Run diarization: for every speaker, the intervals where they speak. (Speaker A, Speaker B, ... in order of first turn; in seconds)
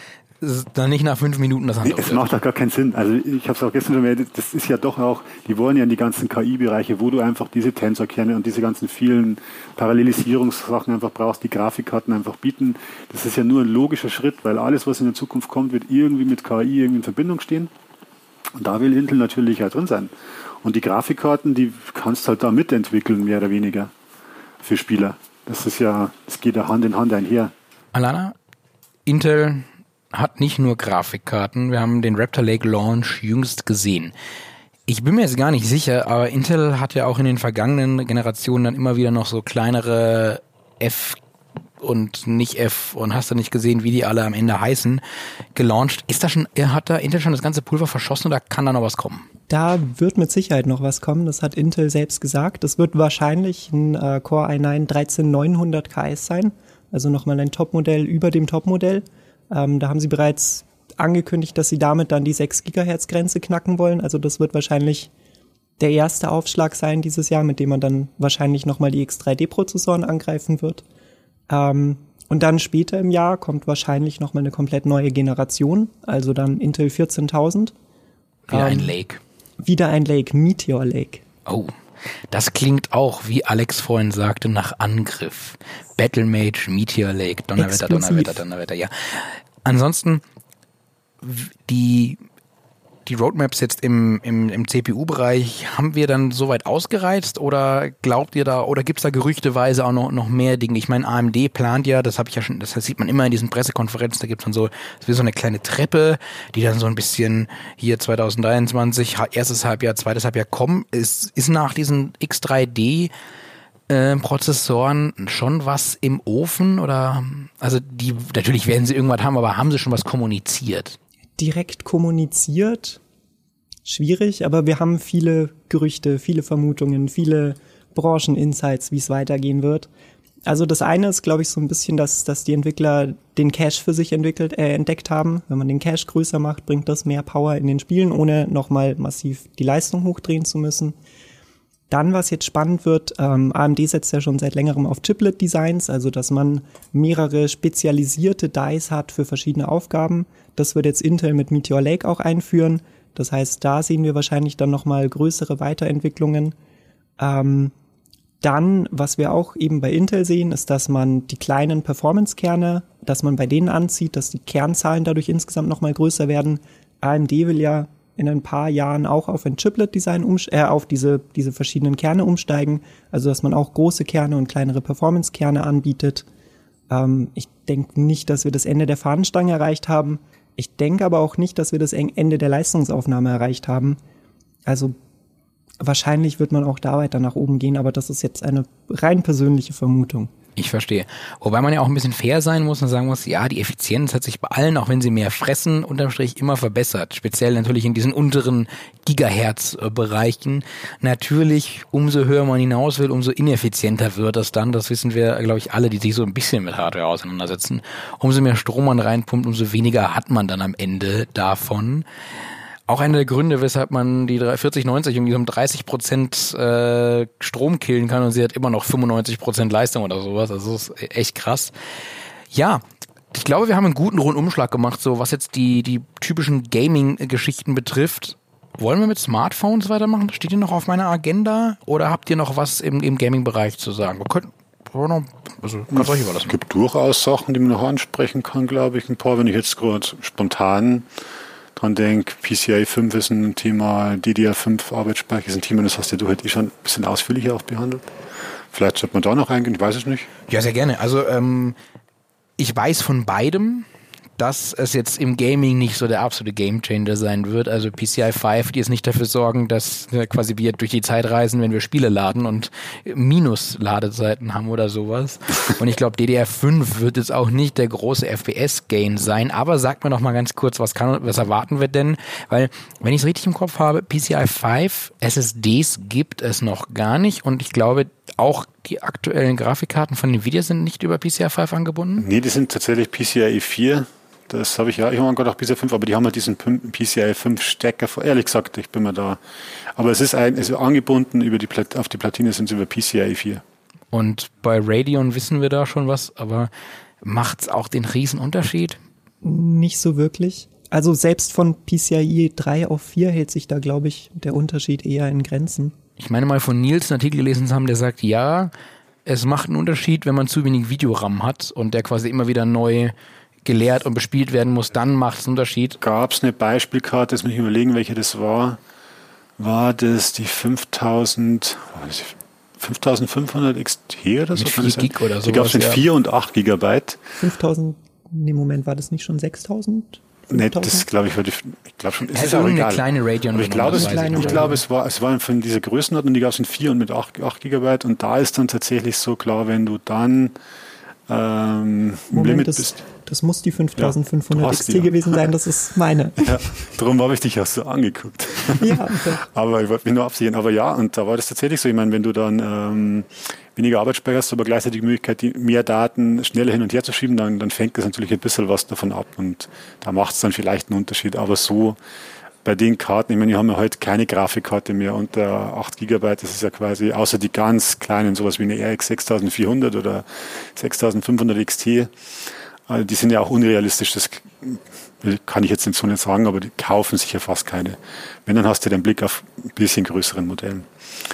Speaker A: 0.4-2.3, 27.9-28.4, 29.1-34.1, 34.9-41.2, 41.8-45.0, 45.5-49.3, 78.5-79.2, 81.5-81.7, 82.3-90.2, 91.2-92.2, 93.1-113.1, 113.9-121.0, 190.6-212.1, 212.9-221.7, 222.5-236.6, 250.5-251.8, 252.6-253.9, 254.4-282.3, 294.1-296.7, 297.2-299.0, 306.2-308.7, 309.2-313.1, 313.6-316.0, 324.6-326.0, 332.3-334.8
Speaker B: 1.8-17.7, 18.6-20.1, 20.6-23.9, 24.6-27.5, 235.9-241.1, 241.8-248.1, 248.7-250.3, 282.2-289.4, 290.0-293.6, 316.0-318.8, 319.6-327.2, 330.5-340.5, 341.3-343.0, 344.0-345.5, 346.4-362.0, 362.6-372.1, 372.9-380.9
Speaker C: 49.5-65.1, 65.8-70.8, 71.5-77.7, 78.5-79.0, 79.6-81.2, 87.6-88.4, 121.4-123.0, 123.9-129.9, 130.5-140.9, 141.9-156.5, 157.2-157.7, 158.4-176.3, 176.9-184.0, 184.7-185.0, 185.8-190.3, 299.4-305.9, 327.4-331.1, 333.9-334.8, 342.3-346.6, 348.8-349.5